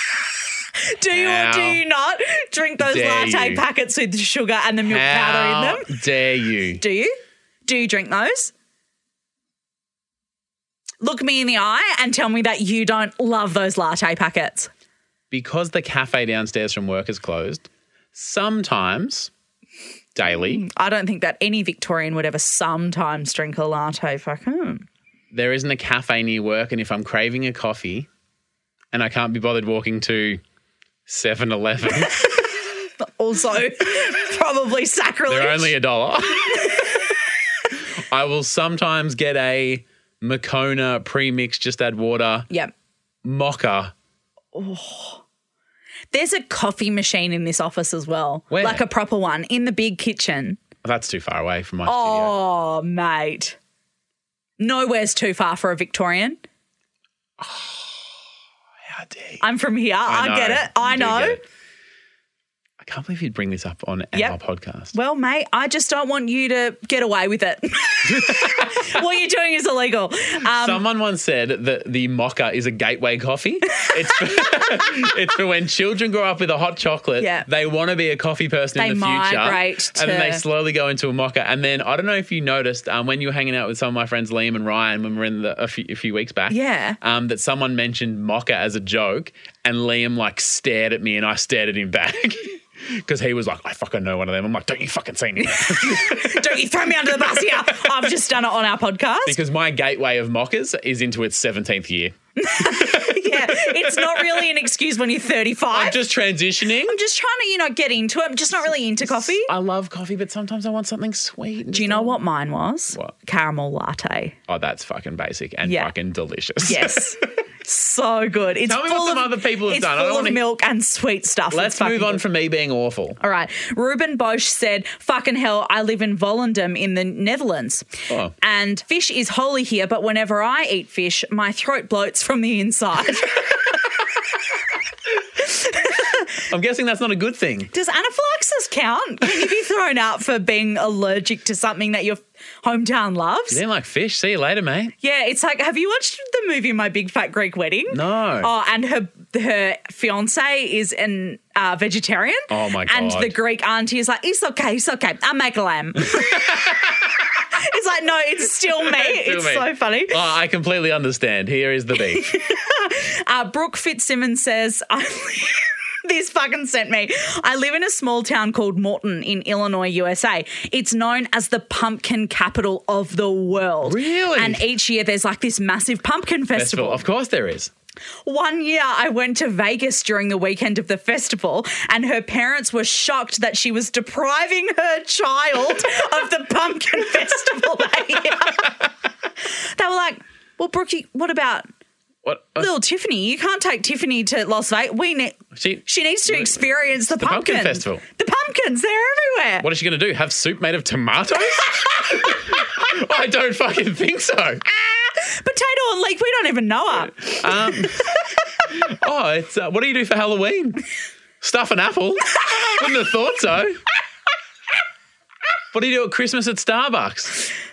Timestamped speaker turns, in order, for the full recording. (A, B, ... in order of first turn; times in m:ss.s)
0:00.8-0:05.9 A
0:01.1-0:01.8 B
0:02.8-0:03.6 B
0:04.8-0:06.8 B
0:06.8-0:08.5 A
0:11.0-0:14.7 A
0:15.3-0:19.3 B
0:20.1-0:20.6 B
0:20.3-0:24.9 A
0:25.3-0:28.1 B
0:28.9-0:30.4 B
0:31.1-0:32.2 B
0:33.0-0:35.7 A
0:35.3-0:37.0 B
0:38.1-0:42.5 B
0:43.2-0:43.9 B
0:44.5-0:45.2 A
0:46.1-0:50.6 A
0:48.5-0:48.8 B
0:50.8-0:52.4 B
0:51.8-0:53.6 A
0:54.6-0:56.4 A
0:57.4-0:58.1 B
0:58.9-0:59.4 B
0:59.4-1:01.4 A
1:00.0-1:01.4 B
1:02.8-1:04.9 B
1:04.9-1:10.8 A
1:08.0-1:08.9 B
1:10.5-1:36.6 B
1:17.2-1:17.5 A
1:18.8-1:20.4 A
1:26.5-1:27.0 A
1:35.4-1:39.4 A
1:37.1-1:38.0 B
1:39.2-1:44.5 B
1:42.4-1:46.0 A
1:45.7-1:47.0 B
1:46.8-1:49.5 A
1:49.0-1:52.2 B
1:51.7-1:54.4 A
1:54.5-1:57.1 B
1:55.6-1:55.9 A
1:56.6-2:02.2 A
1:58.6-2:00.4 B
2:01.5-2:03.2 B
2:03.2-2:07.9 A
2:08.1-2:08.3 B
2:08.4-2:13.7 A
2:15.4-2:16.3 A
2:16.5-2:17.7 B
2:17.7-2:23.6 A
2:23.5-2:24.9 B
2:25.0-2:36.6 A
2:27.9-2:28.5 B
2:32.5-2:33.3 B
2:36.1-2:37.2 B
2:37.5-2:40.2 A
2:38.8-2:42.2 B
2:42.0-2:57.0 A
2:53.8-2:54.6 B
2:56.5-2:57.7 B
2:58.2-3:08.8 A
3:09.4-3:11.7 A
3:12.2-3:12.7 B
3:12.6-3:19.7 A
3:15.5-3:16.5 B
3:17.2-3:18.0 B
3:19.6-3:24.7 B
3:25.1-3:27.9 A
3:27.2-3:28.1 B
3:28.7-3:30.8 B
3:31.4-3:33.8 B
3:35.7-3:37.5 B